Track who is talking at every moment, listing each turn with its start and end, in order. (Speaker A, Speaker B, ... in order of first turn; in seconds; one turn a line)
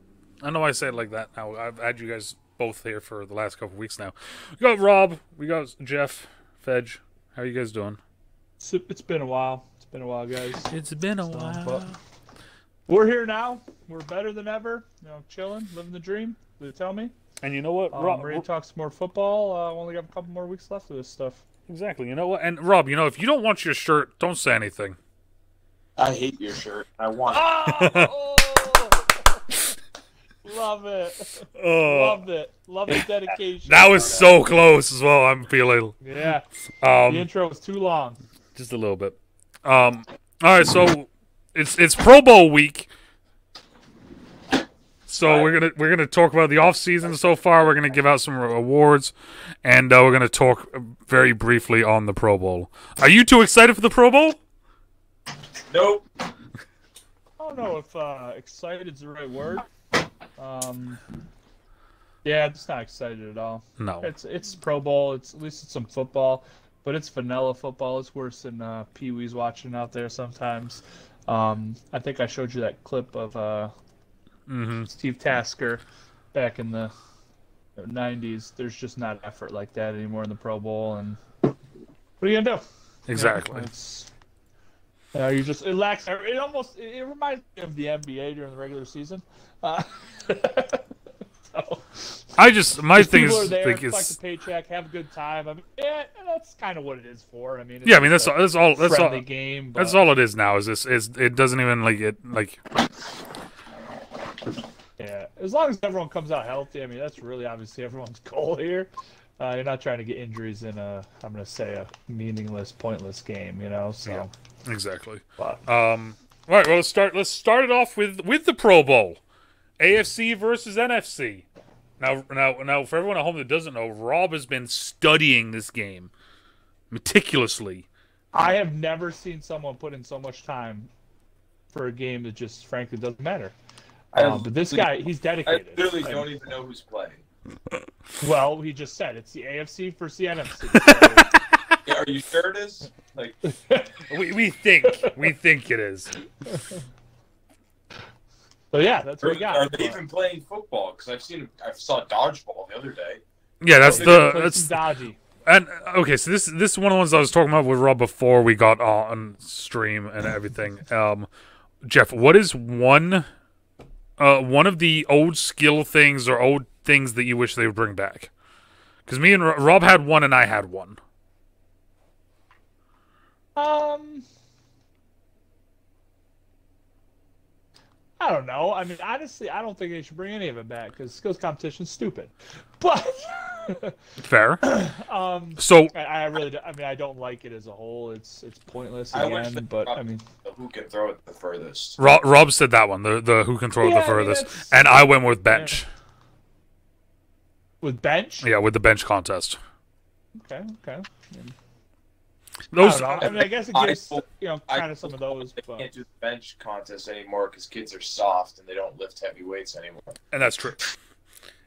Speaker A: 0.4-8.0
Speaker B: 8.6-10.7
Speaker A: 10.6-12.0
Speaker B: 11.2-11.9
Speaker B: 12.9-17.1
Speaker A: 17.4-18.4
Speaker B: 17.9-21.4
Speaker A: 21.7-25.0
Speaker C: 26.0-27.5
Speaker B: 27.3-29.4
Speaker A: 27.7-28.1
Speaker B: 30.4-34.2
Speaker A: 31.5-32.2
Speaker A: 33.7-36.0
Speaker B: 36.0-36.5
Speaker A: 36.8-37.3
Speaker B: 37.1-38.2
Speaker A: 38.5-42.9
Speaker A: 45.1-49.1
Speaker A: 49.6-54.4
Speaker C: 55.7-56.0
Speaker B: 57.4-59.6
Speaker B: 60.4-61.0
Speaker B: 62.2-73.7
Speaker A: 63.8-64.1
Speaker A: 74.5-74.9
Speaker B: 74.9-75.8
Speaker B: 76.3-76.9
Speaker B: 77.8-81.2
Speaker B: 82.2-84.1
Speaker A: 83.1-83.7
Speaker B: 85.1-90.8
Speaker B: 91.5-92.3
Speaker A: 92.4-94.1
Speaker B: 92.9-100.0
Speaker A: 97.8-102.6
Speaker B: 105.0-114.3
Speaker A: 114.0-119.2
Speaker A: 119.8-121.4
Speaker A: 122.0-126.1
Speaker A: 126.9-127.9
Speaker B: 128.3-130.9
Speaker B: 131.7-133.5
Speaker C: 134.1-134.9
Speaker B: 134.1-136.3
Speaker C: 135.4-137.2
Speaker B: 138.2-141.3
Speaker A: 140.7-141.2
Speaker C: 141.8-143.3
Speaker B: 143.4-144.0
Speaker A: 144.1-146.2
Speaker B: 144.8-145.1
Speaker B: 146.5-146.8
Speaker B: 148.7-150.0
Speaker C: 149.2-153.2
Speaker A: 153.6-154.8
Speaker B: 153.8-155.2
Speaker C: 153.8-154.3
Speaker A: 155.4-161.3
Speaker A: 161.8-163.2
Speaker A: 164.2-168.3
Speaker A: 169.1-171.0
Speaker B: 173.6-174.2
Speaker B: 178.2-183.9
Speaker A: 184.2-184.7
Speaker B: 184.6-190.2
Speaker A: 185.6-185.9
Speaker C: 189.1-192.0
Speaker A: 192.0-195.8
Speaker B: 193.8-195.8
Speaker B: 197.8-198.5
Speaker A: 198.4-199.6
Speaker B: 200.4-201.5
Speaker A: 202.7-203.5
Speaker B: 202.8-205.9
Speaker C: 203.2-210.2
Speaker A: 210.3-210.9